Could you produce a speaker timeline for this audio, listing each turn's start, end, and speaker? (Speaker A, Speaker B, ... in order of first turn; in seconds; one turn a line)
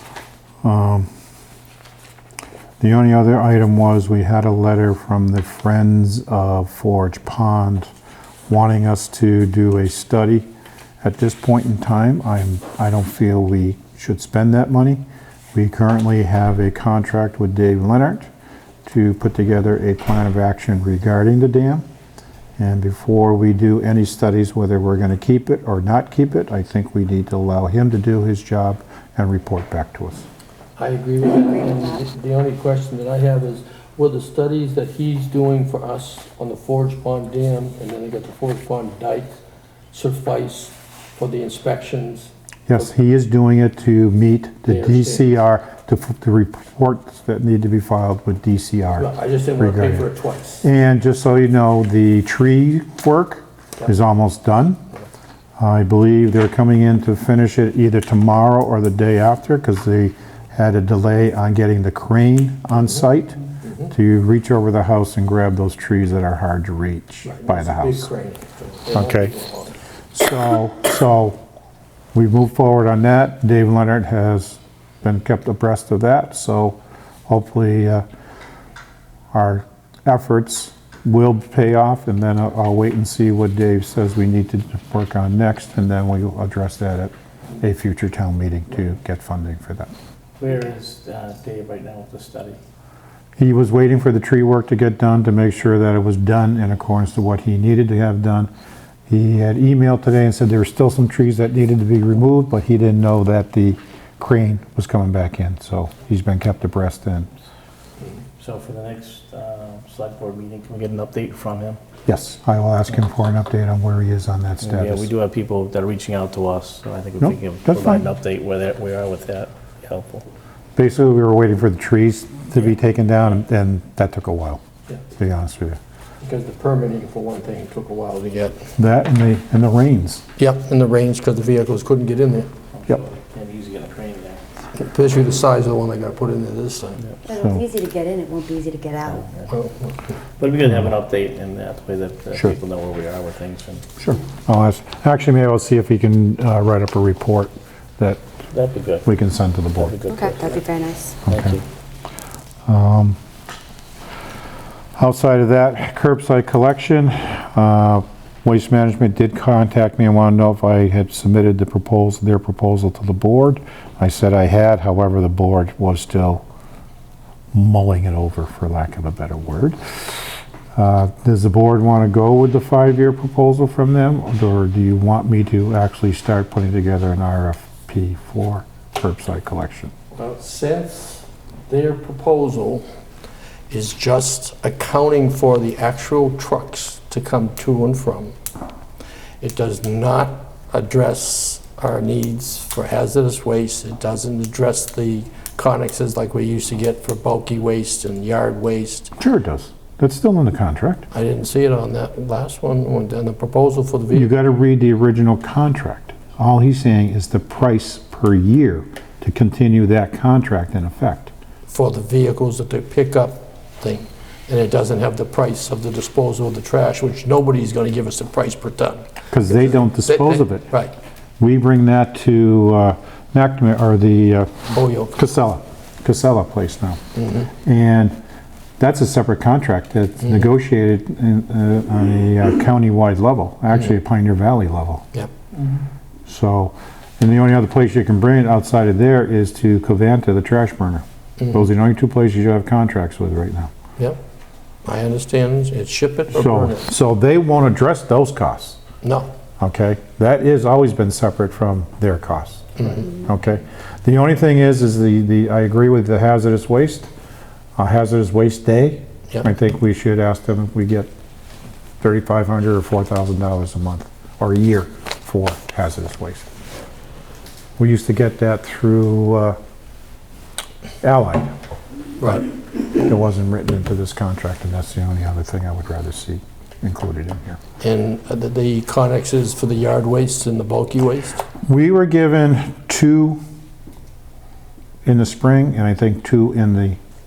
Speaker A: 0.6-1.1
Speaker A: 2.8-7.9
Speaker A: 8.5-10.4
Speaker A: 11.0-15.0
Speaker A: 15.5-18.3
Speaker A: 18.9-21.8
Speaker A: 22.6-30.3
Speaker B: 30.8-39.4
Speaker B: 39.9-42.9
Speaker A: 42.7-50.1
Speaker B: 44.7-45.3
Speaker B: 49.0-50.6
Speaker A: 50.6-54.8
Speaker A: 55.6-68.1
Speaker B: 63.6-63.9
Speaker B: 67.2-69.7
Speaker A: 68.9-69.3
Speaker A: 70.1-71.4
Speaker A: 72.1-78.0
Speaker A: 79.3-89.9
Speaker C: 90.4-92.6
Speaker A: 93.4-98.5
Speaker A: 99.1-107.3
Speaker C: 108.4-111.8
Speaker A: 112.0-115.1
Speaker C: 114.6-120.2
Speaker A: 117.2-118.0
Speaker A: 120.8-124.6
Speaker A: 125.2-125.8
Speaker B: 126.2-128.7
Speaker A: 128.8-130.2
Speaker B: 130.4-132.5
Speaker C: 132.7-134.4
Speaker B: 134.7-137.0
Speaker D: 137.2-139.2
Speaker A: 137.3-137.6
Speaker C: 139.1-139.5
Speaker B: 139.5-140.0
Speaker C: 140.4-143.9
Speaker A: 144.0-148.2
Speaker C: 148.5-149.1
Speaker A: 149.0-149.9
Speaker C: 149.8-150.7
Speaker D: 150.1-151.2
Speaker A: 151.2-151.6
Speaker C: 151.2-151.6
Speaker A: 152.7-153.2
Speaker A: 155.0-166.4
Speaker A: 167.5-169.8
Speaker A: 170.7-179.9
Speaker B: 180.2-182.8
Speaker B: 183.7-188.3
Speaker B: 189.4-199.1
Speaker A: 199.2-201.1
Speaker B: 201.1-204.3
Speaker A: 204.1-211.3
Speaker B: 211.7-220.9
Speaker A: 219.3-220.7
Speaker A: 221.4-227.0
Speaker B: 224.7-225.2
Speaker B: 227.2-227.5
Speaker A: 227.6-228.2
Speaker A: 228.8-235.0
Speaker B: 235.1-235.6
Speaker A: 236.2-243.7
Speaker B: 244.8-246.9
Speaker A: 246.3-248.8
Speaker B: 249.0-249.3
Speaker A: 249.6-257.1
Speaker B: 252.8-253.1
Speaker A: 257.8-261.1
Speaker A: 262.0-266.5
Speaker A: 267.8-269.6
Speaker A: 271.0-271.5
Speaker B: 272.2-272.4
Speaker A: 272.9-277.6
Speaker B: 277.8-281.5
Speaker A: 281.6-283.4
Speaker A: 285.0-287.0